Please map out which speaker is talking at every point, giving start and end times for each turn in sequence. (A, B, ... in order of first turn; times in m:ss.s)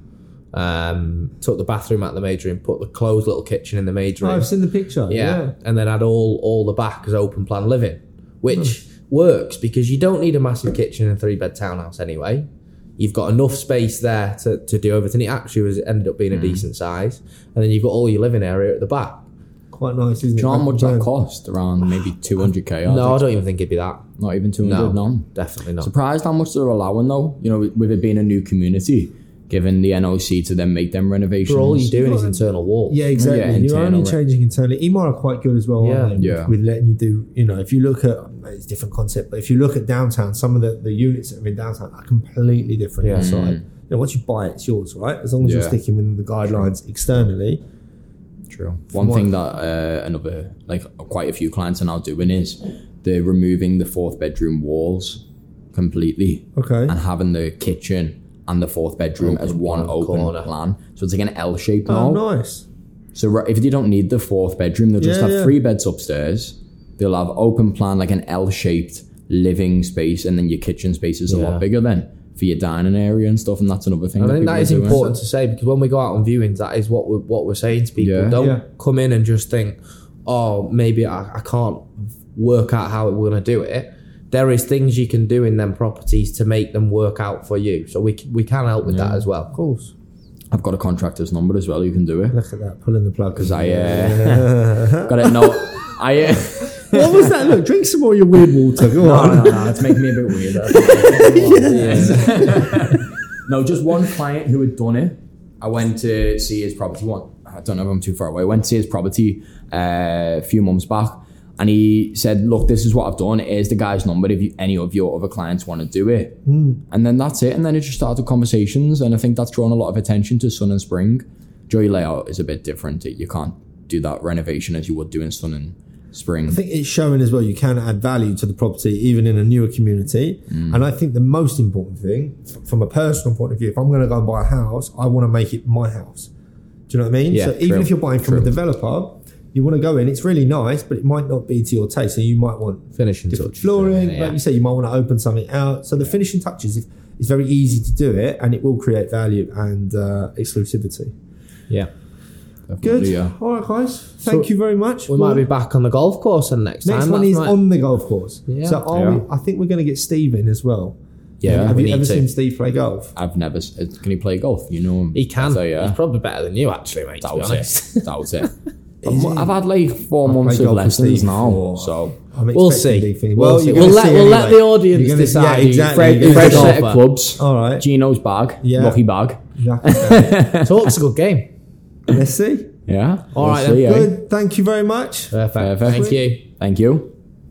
0:00.5-0:04.5 A
0:04.2-0:05.5 B
0:05.1-0:19.3 A
0:16.3-0:16.7 C
0:19.7-0:21.1 B
0:20.4-0:23.3 C
0:22.8-0:24.1 A
0:24.2-0:25.3 C
0:24.6-0:25.9 A
0:25.8-0:32.0 C
0:31.5-0:33.0 A
0:32.0-0:47.6 B
0:33.2-0:34.2 C
0:35.8-0:36.2 A
0:36.2-0:36.5 C
0:43.0-0:43.3 A
0:43.1-0:43.6 C
0:45.4-0:45.8 C
0:48.5-1:02.2 C
0:49.0-0:49.3 B
0:56.6-0:57.0 B
0:59.2-1:00.5 A
1:01.9-1:02.7 B
1:03.1-1:15.0 C
1:05.0-1:05.6 B
1:11.3-1:11.6 A
1:14.2-1:29.5 A
1:14.9-1:15.2 B
1:18.0-1:18.4 C
1:18.4-1:18.6 B
1:28.8-1:29.3 C
1:29.5-1:29.9 B
1:30.5-1:32.4 C
1:32.3-1:35.8 B
1:33.4-1:37.5 C
1:36.6-1:39.8 B
1:39.0-2:06.6 C
1:40.6-1:43.0 B
1:41.6-1:42.7 A
1:56.5-1:56.8 B
2:06.5-2:16.3 B
2:10.5-2:10.8 C
2:16.9-2:31.1 B
2:17.3-2:17.6 A
2:17.6-2:18.5 C
2:23.0-2:24.4 A
2:32.7-2:33.4 C
2:32.8-2:35.4 B
2:35.1-2:37.6 A
2:36.8-2:43.1 B
2:38.5-2:38.8 A
2:38.9-2:39.2 C
2:41.4-2:42.3 A
2:41.4-2:41.8 C
2:43.2-2:46.0 C
2:45.1-2:48.5 A
2:47.2-2:48.5 C
2:49.0-2:49.6 B
2:49.0-2:52.2 C
2:50.2-2:56.8 B
2:52.5-2:57.0 A
2:56.0-3:01.0 C
2:57.4-2:57.8 B
2:58.6-2:59.0 B
2:59.6-3:00.4 B
3:00.6-3:01.5 A
3:02.1-3:02.7 B
3:02.9-3:04.1 C
3:03.3-3:03.9 A
3:03.8-3:06.2 B
3:05.3-3:06.4 A
3:05.6-3:07.1 C